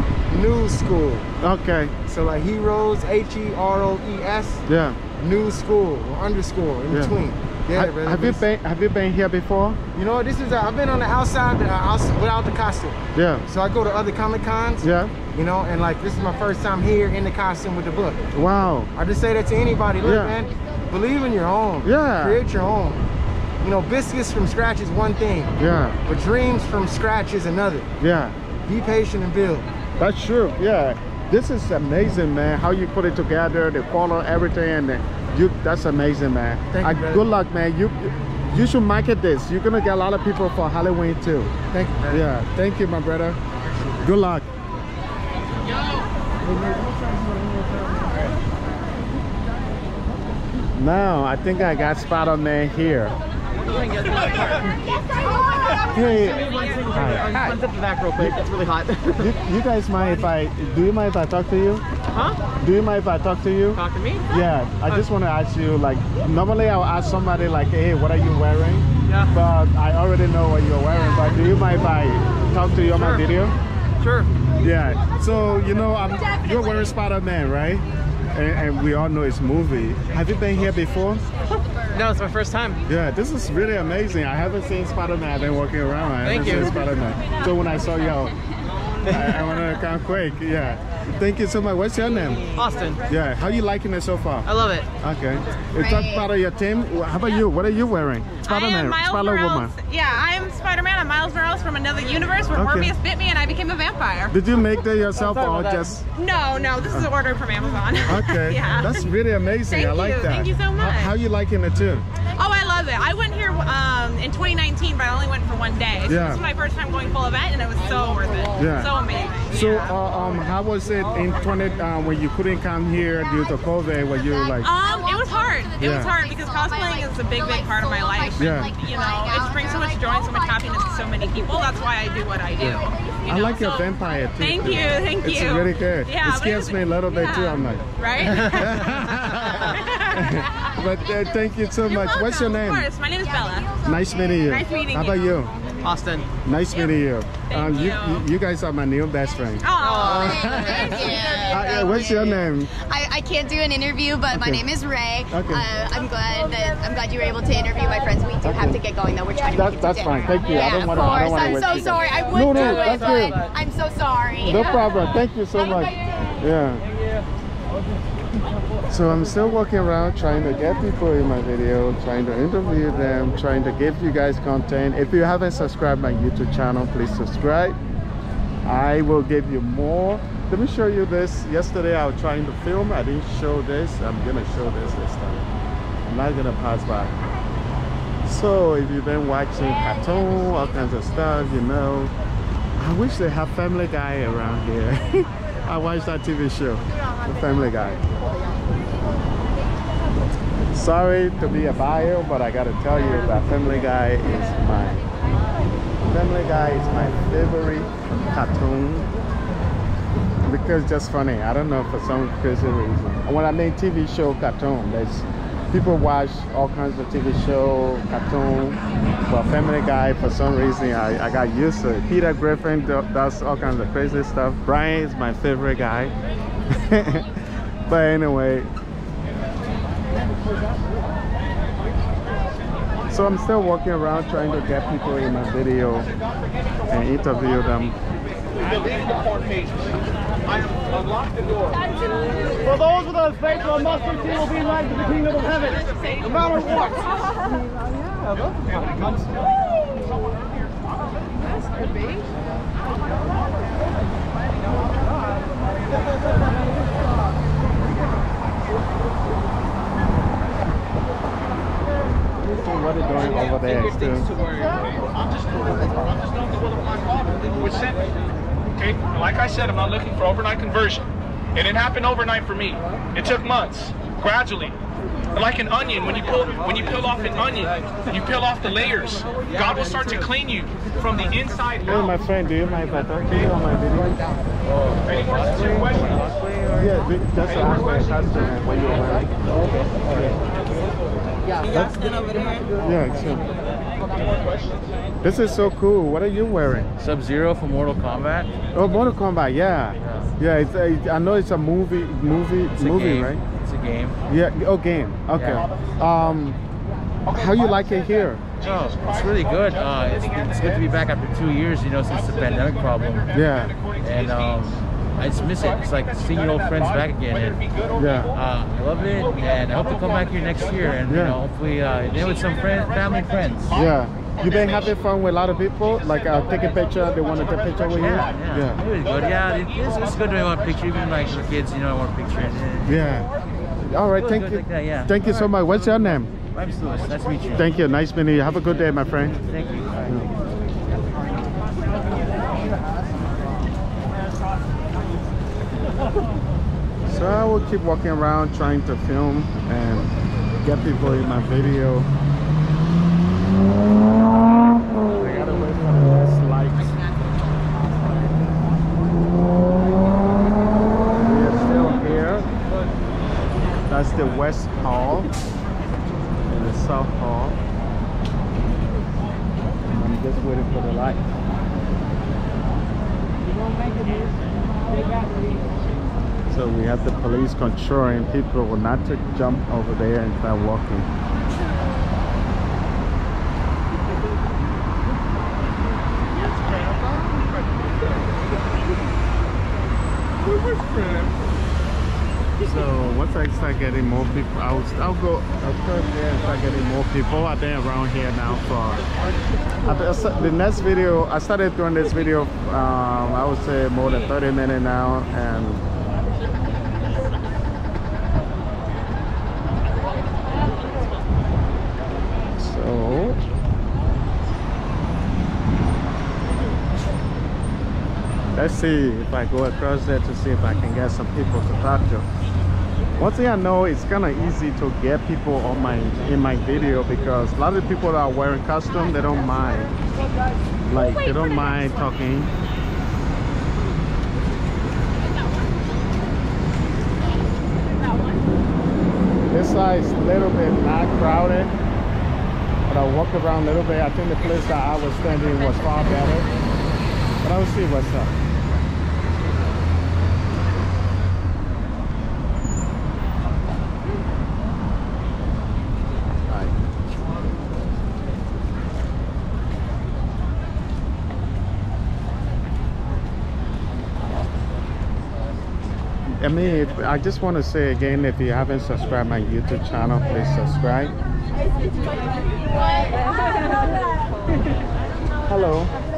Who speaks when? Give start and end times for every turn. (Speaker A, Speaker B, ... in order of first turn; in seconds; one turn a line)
Speaker A: 0.3-1.3
Speaker B: 1.4-1.9
Speaker A: 2.1-4.7
Speaker B: 4.7-5.0
Speaker A: 5.2-8.4
Speaker B: 7.7-9.8
Speaker A: 9.9-18.2
Speaker B: 13.2-13.4
Speaker B: 14.8-15.1
Speaker B: 18.3-18.9
Speaker A: 18.9-23.0
Speaker B: 20.0-20.3
Speaker B: 21.8-22.4
Speaker A: 23.6-25.5
Speaker B: 25.6-26.0
Speaker A: 26.1-27.9
Speaker B: 28.0-28.4
Speaker A: 28.7-29.7
Speaker B: 30.0-43.4
Speaker A: 36.7-37.3
Speaker A: 41.7-42.2
Speaker B: 44.0-44.5
Speaker B: 50.8-53.1
Speaker C: 53.7-54.5
Speaker B: 55.9-57.6
Speaker C: 56.4-59.3
Speaker B: 59.2-61.8
Speaker C: 62.1-62.4
Speaker B: 62.6-73.5
Speaker C: 63.8-64.2
Speaker C: 72.9-73.3
Speaker C: 74.0-74.3
Speaker B: 74.6-81.2
Speaker C: 81.9-82.8
Speaker B: 82.9-88.3
Speaker C: 86.2-86.8
Speaker C: 89.0-89.4
Speaker B: 89.1-92.5
Speaker C: 92.5-93.0
Speaker B: 93.1-94.5
Speaker C: 94.5-94.9
Speaker B: 95.0-99.7
Speaker D: 95.8-96.3
Speaker E: 98.5-104.3
Speaker B: 102.5-102.9
Speaker B: 104.3-106.0
Speaker C: 105.2-105.9
Speaker E: 106.2-109.0
Speaker B: 108.1-112.0
Speaker E: 109.7-111.0
Speaker E: 112.4-119.9
Speaker B: 116.1-116.4
Speaker B: 118.6-118.9
Speaker B: 119.5-124.7
Speaker E: 124.6-133.9
Speaker B: 125.8-126.1
Speaker B: 128.4-128.7
Speaker B: 132.6-142.9
Speaker E: 134.4-138.8
Speaker E: 141.9-143.7
Speaker B: 143.8-145.5
Speaker E: 144.7-145.1
Speaker C: 145.8-146.2
Speaker B: 146.4-152.7
Speaker D: 149.7-164.8
Speaker E: 150.9-151.9
Speaker B: 154.3-154.6
Speaker B: 155.3-155.7
Speaker B: 158.4-158.8
Speaker B: 159.5-163.4
Speaker B: 164.4-166.8
Speaker B: 168.9-177.8
Speaker B: 178.7-185.4
Speaker B: 186.1-187.1
Speaker B: 188.3-192.1
Speaker B: 192.8-198.0
Speaker B: 200.7-205.0
Speaker B: 206.0-209.1
Speaker B: 210.5-226.1
Speaker B: 226.7-227.2
Speaker B: 227.9-228.7
Speaker B: 233.1-236.1
Speaker B: 236.9-237.9
Speaker E: 251.8-252.2
Speaker B: 262.4-264.3
Speaker F: 267.5-268.0
Speaker F: 268.8-274.8
Speaker F: 275.3-282.1
Speaker B: 281.9-284.2
Speaker F: 285.1-286.2
Speaker B: 286.7-289.3
Speaker G: 289.6-290.3
Speaker B: 290.1-290.4
Speaker B: 292.8-293.4
Speaker B: 295.2-296.9
Speaker G: 297.0-298.5
Speaker B: 298.7-303.4
Speaker G: 300.0-300.3
Speaker G: 302.8-304.2
Speaker B: 304.3-306.6
Speaker G: 305.3-305.6
Speaker B: 307.3-308.4
Speaker G: 308.6-313.3
Speaker B: 313.3-313.7
Speaker G: 314.0-317.6
Speaker B: 318.0-318.3
Speaker G: 318.3-323.8
Speaker B: 321.1-321.4
Speaker B: 323.7-328.8
Speaker G: 328.0-333.0
Speaker B: 332.9-333.3
Speaker B: 333.9-336.3
Speaker G: 334.1-335.5
Speaker G: 336.5-337.7
Speaker B: 337.5-339.4
Speaker G: 339.4-340.2
Speaker B: 347.1-350.1
Speaker B: 350.6-352.1
Speaker B: 355.1-356.9
Speaker B: 361.2-362.5
Speaker B: 363.9-365.3
Speaker B: 366.5-367.6
Speaker B: 369.9-371.2
Speaker B: 376.5-381.1
Speaker B: 392.6-399.0
Speaker B: 399.9-405.8
Speaker B: 412.6-413.4
Speaker B: 418.6-422.2
Speaker B: 423.2-429.9
Speaker B: 430.9-432.5
Speaker B: 439.5-441.7
Speaker B: 442.9-446.5
Speaker B: 447.4-448.3
Speaker B: 466.4-471.1
Speaker B: 475.5-475.9